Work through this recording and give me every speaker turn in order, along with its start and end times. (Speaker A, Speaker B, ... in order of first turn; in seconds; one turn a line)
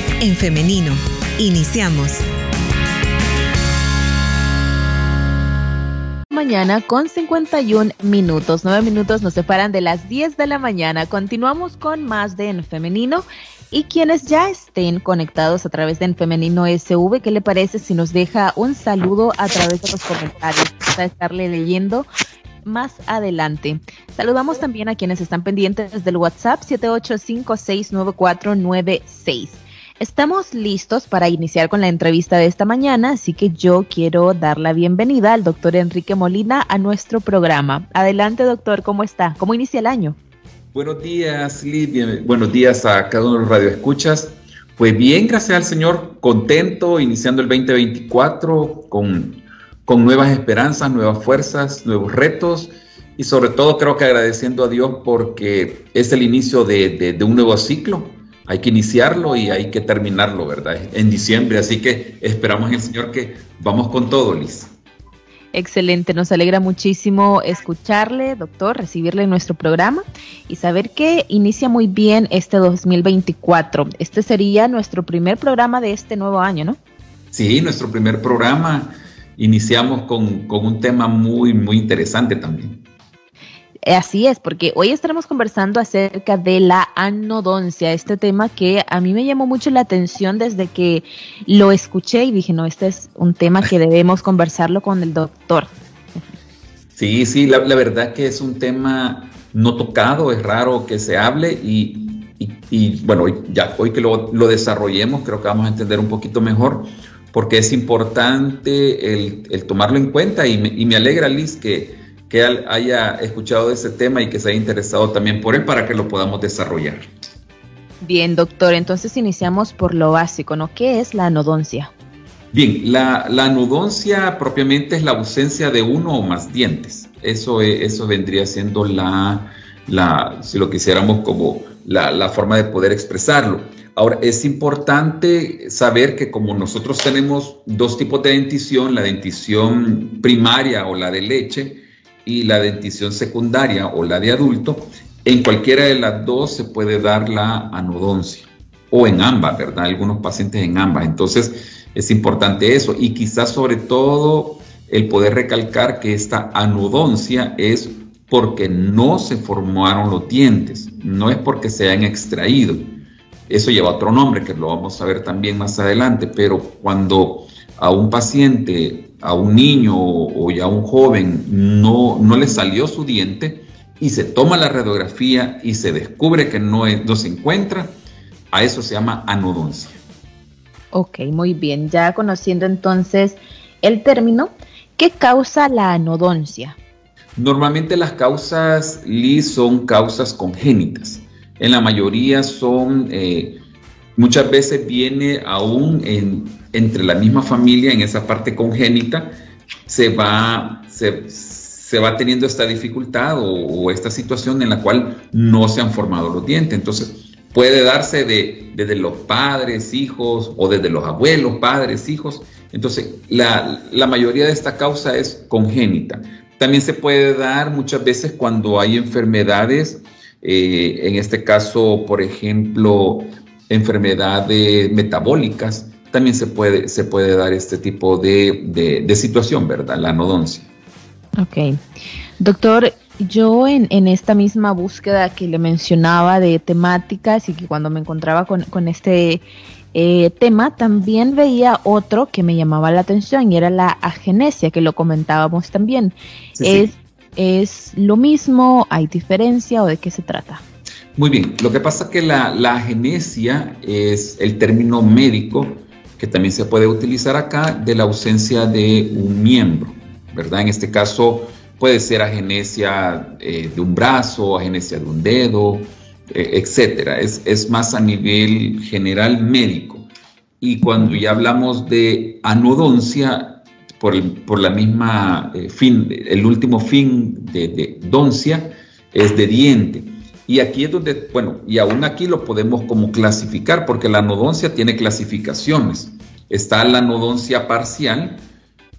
Speaker A: 0.2-2.2
Speaker B: 6.3-22.1
Speaker B: 22.6-40.2
Speaker C: 40.7-64.7
Speaker B: 65.5-76.8
Speaker C: 77.3-82.8
Speaker B: 83.9-95.7
Speaker C: 97.0-117.1
Speaker B: 118.0-121.9
Speaker C: 122.5-162.9
Speaker C: 163.5-177.9
Speaker C: 178.5-180.0
Speaker B: 180.9-186.8
Speaker C: 187.4-193.6
Speaker C: 194.2-230.7
Speaker B: 231.4-231.8
Speaker B: 232.4-250.6
Speaker C: 246.6-246.9
Speaker C: 251.2-270.1
Speaker C: 270.6-288.4